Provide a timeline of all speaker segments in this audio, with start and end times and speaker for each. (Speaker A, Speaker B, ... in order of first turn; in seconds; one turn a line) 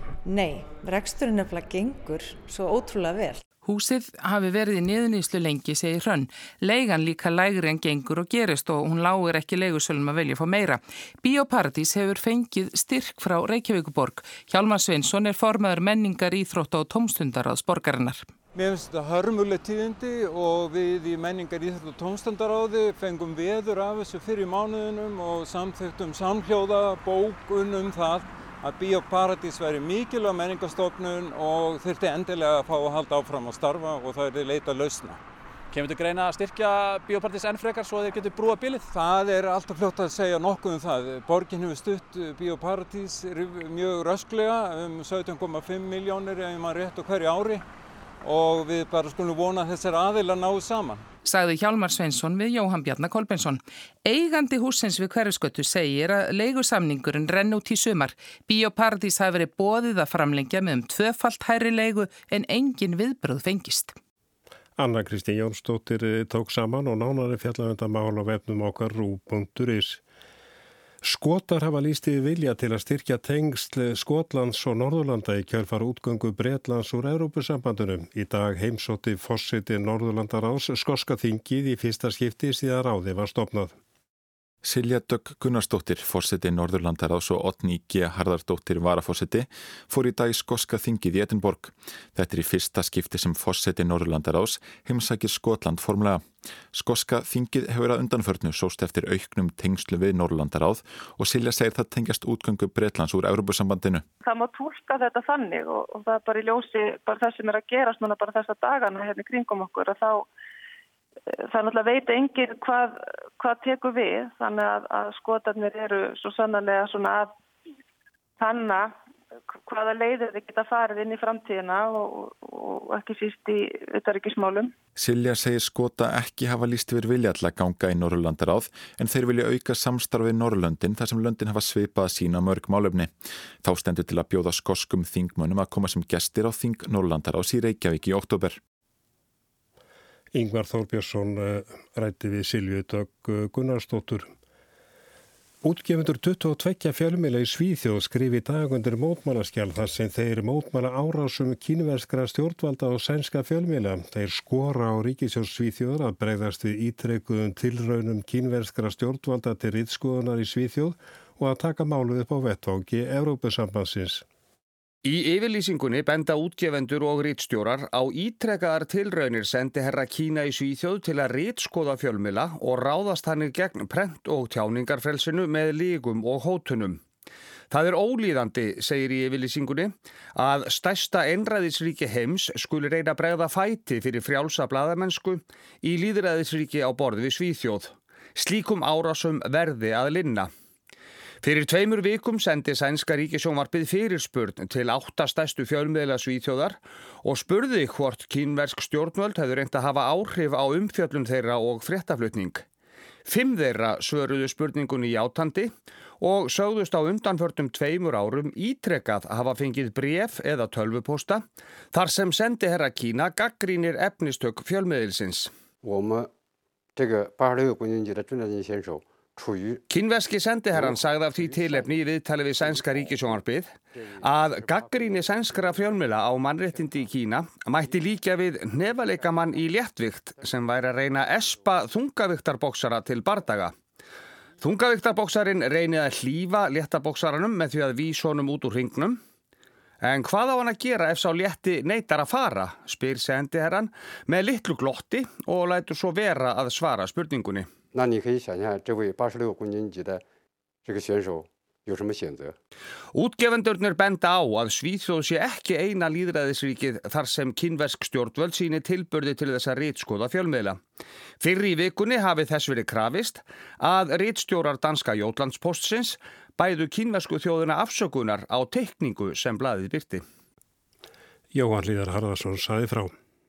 Speaker A: 0.2-3.4
Speaker B: 3.6-18.3
Speaker C: 18.5-35.2
Speaker D: 35.7-38.9
Speaker C: 38.9-47.6
Speaker C: 48.2-51.0
Speaker B: 51.2-64.0
Speaker E: 64.8-70.0
Speaker E: 71.0-83.7
Speaker F: 84.6-104.0
Speaker G: 104.2-110.3
Speaker G: 111.3-117.3
Speaker G: 118.4-118.9
Speaker G: 119.7-124.7
Speaker F: 125.0-138.6
Speaker E: 140.3-144.3
Speaker E: 145.6-164.2
Speaker H: 165.0-177.0
Speaker H: 177.7-190.5
Speaker H: 191.4-202.7
Speaker H: 203.2-215.5
Speaker I: 215.8-216.3
Speaker I: 217.0-219.8
Speaker H: 219.9-233.7
Speaker I: 221.5-221.9
Speaker I: 223.9-224.9
Speaker H: 234.6-239.2
Speaker H: 240.0-247.7
Speaker I: 247.9-250.2
Speaker I: 250.8-252.5
Speaker H: 253.1-260.8
Speaker H: 261.4-270.2
Speaker E: 271.5-273.1